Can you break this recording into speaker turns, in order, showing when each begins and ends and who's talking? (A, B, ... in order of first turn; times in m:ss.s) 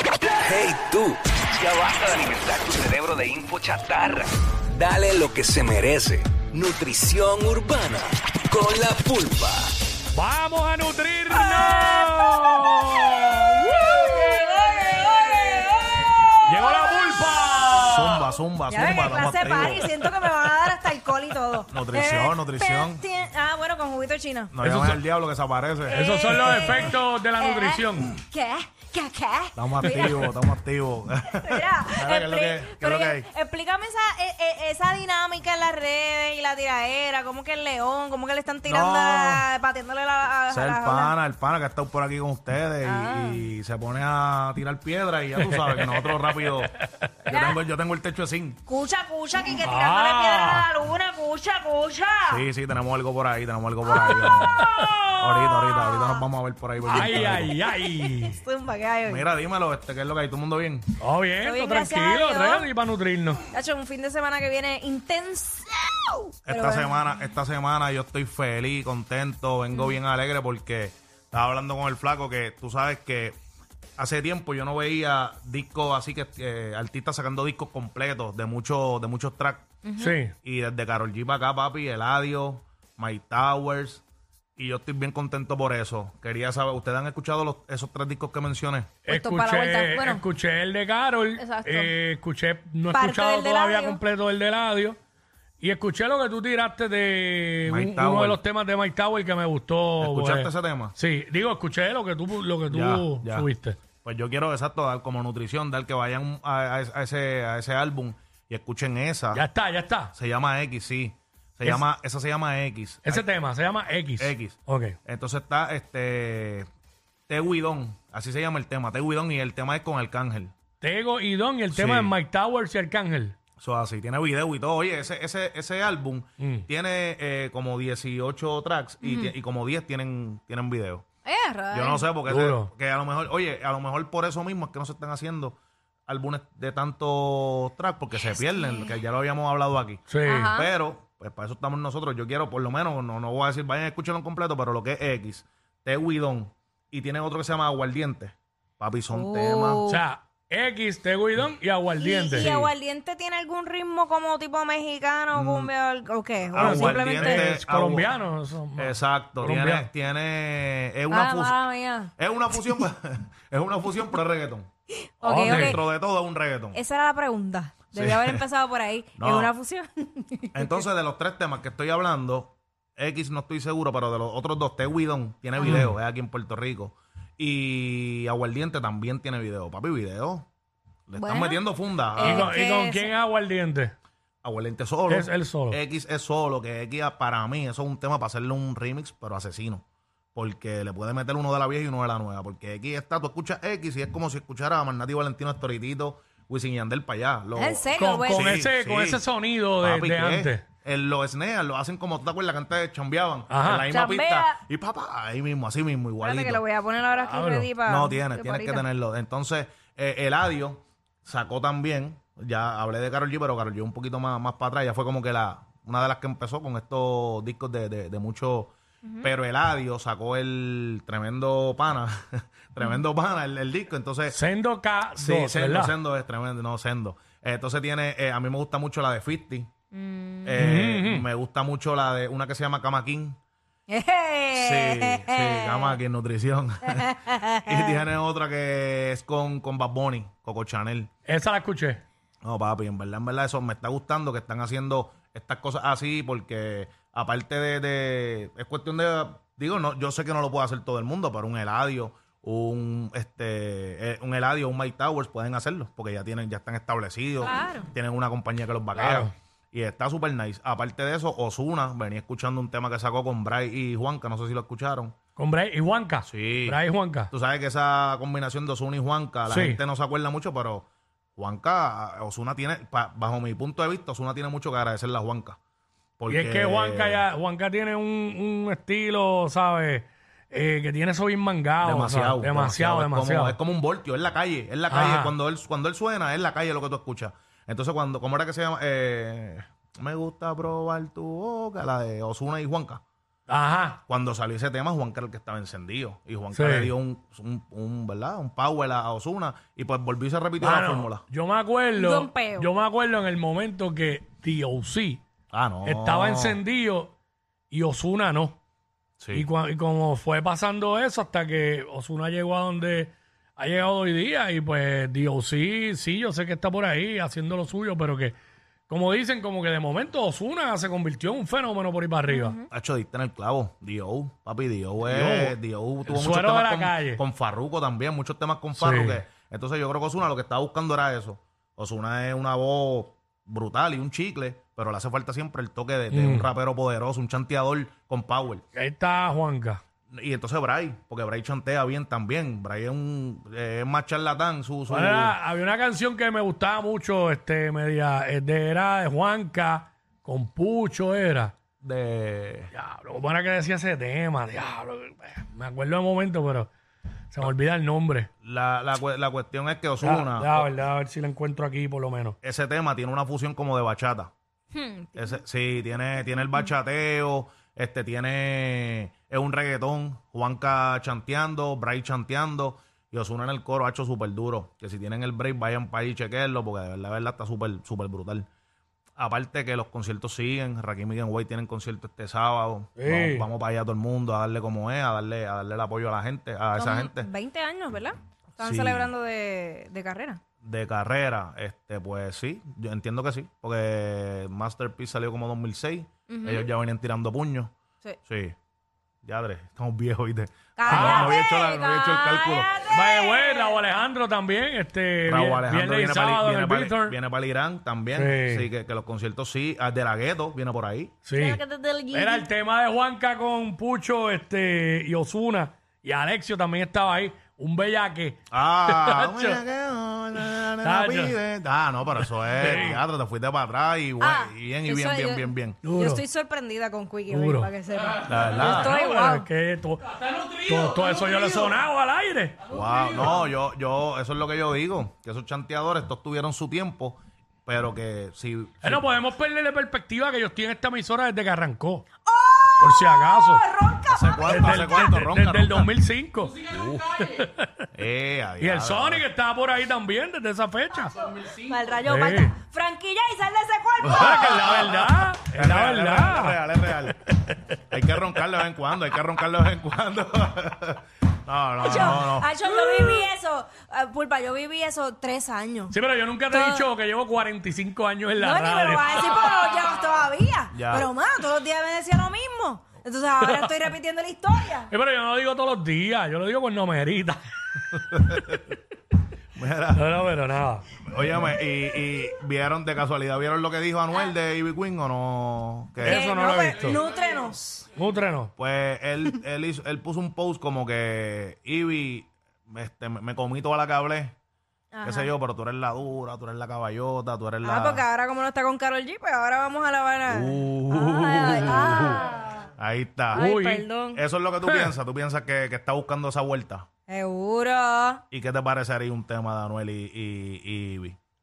0:00.4-0:09.6 A
0:10.1-0:14.4 B
0:11.4-0:12.3 C
0:13.7-0:17.8 C
0:16.5-0:18.2 B
0:17.8-0:20.0 D
0:18.7-0:24.5 C
0:21.7-0:23.0 D
0:24.5-0:26.7 D
0:24.6-0:25.0 B
0:25.9-0:30.3 C
0:25.9-0:28.2 B
0:29.6-0:33.3 D
0:31.4-0:41.1 C
0:38.7-0:39.5 D
0:40.5-0:46.7 D
0:42.8-0:43.4 C
0:45.4-0:47.1 B
0:47.3-0:48.6 D
0:47.3-0:47.6 C
0:48.7-0:52.4 C
0:49.6-0:50.7 B
0:52.3-0:57.5 D
0:53.9-0:55.2 B
0:55.4-0:56.2 C
0:56.9-0:59.2 C
0:56.9-0:58.4 B
0:59.1-1:00.9 D
1:01.0-1:03.4 B
1:01.4-1:02.7 C
1:03.5-1:07.0 C
1:06.5-1:13.4 D
1:09.7-1:10.0 C
1:14.0-1:19.7 D
1:19.8-1:20.2 C
1:20.0-1:20.4 B
1:20.4-1:24.0 D
1:24.6-1:28.9 D
1:29.0-1:35.0 B
1:29.1-1:30.2 C
1:31.4-1:31.9 C
1:32.9-1:34.0 C
1:35.6-1:43.8 B
1:37.7-1:38.4 D
1:40.0-1:41.0 D
1:42.7-1:43.5 D
1:44.0-1:49.4 D
1:49.3-1:50.1 B
1:50.1-1:53.2 D
1:53.0-1:55.0 B
1:54.2-1:56.7 D
1:57.3-2:00.5 D
2:00.8-2:03.4 B
2:01.7-2:02.2 D
2:03.6-2:11.0 D
2:06.4-2:06.7 B
2:09.0-2:09.3 C
2:11.3-2:12.1 C
2:11.7-2:15.6 D
2:12.3-2:12.7 B
2:16.1-2:20.0 D
2:18.2-2:18.9 C
2:20.1-2:20.6 B
2:20.2-2:20.7 C
2:20.6-2:29.8 D
2:29.1-2:30.0 C
2:29.9-2:32.7 B
2:32.0-2:37.5 C
2:35.3-2:35.7 D
2:36.5-2:38.2 D
2:36.6-2:39.9 B
2:38.8-2:41.6 D
2:41.1-2:42.1 C
2:42.2-2:44.7 D
2:45.1-2:45.8 C
2:45.2-2:46.8 D
2:45.3-2:45.8 B
2:46.7-2:50.8 C
2:47.9-2:48.4 D
2:49.2-2:49.5 D
2:50.5-3:00.5 D
2:55.6-2:55.9 C
2:55.6-2:55.9 B
3:01.1-3:02.5 D
3:01.2-3:01.6 C
3:02.2-3:03.1 C
3:02.2-3:03.9 B
3:04.4-3:09.8 D
3:05.1-3:05.8 B
3:10.4-3:19.2 D
3:17.6-3:18.5 C
3:18.0-3:20.6 B
3:19.8-3:26.6 D
3:23.5-3:23.9 B
3:23.9-3:24.6 C
3:26.2-3:28.8 C
3:27.1-3:27.7 B
3:27.8-3:44.4 D
3:44.3-3:46.0 B
3:45.2-3:49.7 D
3:49.9-3:50.7 C
3:50.4-3:53.4 D
3:50.6-3:51.2 B
3:53.9-3:56.0 C
3:54.5-4:01.1 D
3:56.9-3:58.0 C
4:01.3-4:02.0 B
4:02.4-4:25.2 D
4:17.4-4:17.9 C
4:19.0-4:19.3 B
4:25.4-4:27.3 B
4:26.2-4:26.8 D
4:27.3-4:35.6 D
4:29.5-4:29.8 B
4:36.2-4:37.2 D
4:36.3-4:43.6 B
4:41.8-4:53.0 D
4:44.9-4:45.4 B
4:53.5-4:54.0 B
4:54.1-5:01.2 D
4:56.5-4:56.9 B
5:00.6-5:05.2 B
5:02.0-5:02.7 C
5:05.5-5:06.6 D
5:05.8-5:07.1 B
5:07.7-5:08.6 B
5:09.2-5:09.5 D
5:09.3-5:18.4 B
5:18.9-5:22.6 B
5:22.3-5:22.6 C
5:22.7-5:38.6 D
5:25.0-5:25.6 B
5:26.1-5:27.2 B
5:28.8-5:29.2 B
5:36.1-5:36.5 B
5:38.8-5:39.8 B
5:40.1-5:45.4 D
5:44.9-5:51.5 B
5:51.8-5:52.7 D
5:52.7-5:56.7 B
5:57.3-5:58.3 B
5:58.4-6:00.7 D
6:00.0-6:02.4 B
6:02.4-6:04.3 D
6:04.7-6:05.4 C
6:05.2-6:18.5 D
6:19.2-6:27.3 D
6:23.0-6:23.5 B
6:26.8-6:30.4 C
6:28.6-6:29.1 D
6:30.6-6:37.7 D
6:36.3-6:36.7 C
6:38.3-6:38.6 D
6:39.2-6:42.7 D
6:40.8-6:43.8 C
6:40.9-6:41.4 B
6:42.9-6:47.2 B
6:45.2-6:51.2 D
6:48.2-6:48.7 B
6:51.2-6:51.6 B
6:51.3-6:52.5 C
6:52.1-6:59.6 B
6:58.5-7:05.8 D
7:00.8-7:01.4 B
7:02.2-7:03.0 B
7:04.2-7:09.5 C
7:05.8-7:06.2 B
7:07.3-7:07.7 B
7:08.3-7:09.0 D
7:08.5-7:12.6 B
7:12.7-7:19.1 D
7:18.8-7:22.1 B
7:22.3-7:25.1 C
7:22.8-7:23.6 B
7:24.1-7:26.0 D
7:24.5-7:27.8 B
7:26.7-7:27.1 D
7:27.9-7:29.3 D
7:28.6-7:31.2 B
7:31.5-7:34.8 C
7:32.0-7:32.5 B
7:34.0-7:37.2 D
7:34.1-7:37.8 B
7:37.9-7:43.2 D
7:41.8-7:45.9 C
7:45.9-7:49.4 B
7:46.5-7:46.9 C
7:48.4-7:54.9 C
7:50.7-7:51.1 D
7:53.4-7:53.8 B
7:54.9-7:58.4 B
7:58.1-7:58.6 D
7:59.6-8:00.1 D
8:00.0-8:00.9 B
8:01.0-8:06.2 D
8:06.0-8:07.0 B
8:06.0-8:07.9 C
8:08.0-8:08.5 B
8:08.6-8:14.4 D
8:14.9-8:15.3 C
8:15.0-8:18.1 D
8:17.6-8:22.6 C
8:20.3-8:23.5 D
8:23.3-8:24.2 C
8:23.4-8:23.9 B
8:24.1-8:26.9 D
8:24.6-8:24.9 B
8:27.1-8:28.2 C
8:28.3-8:31.2 D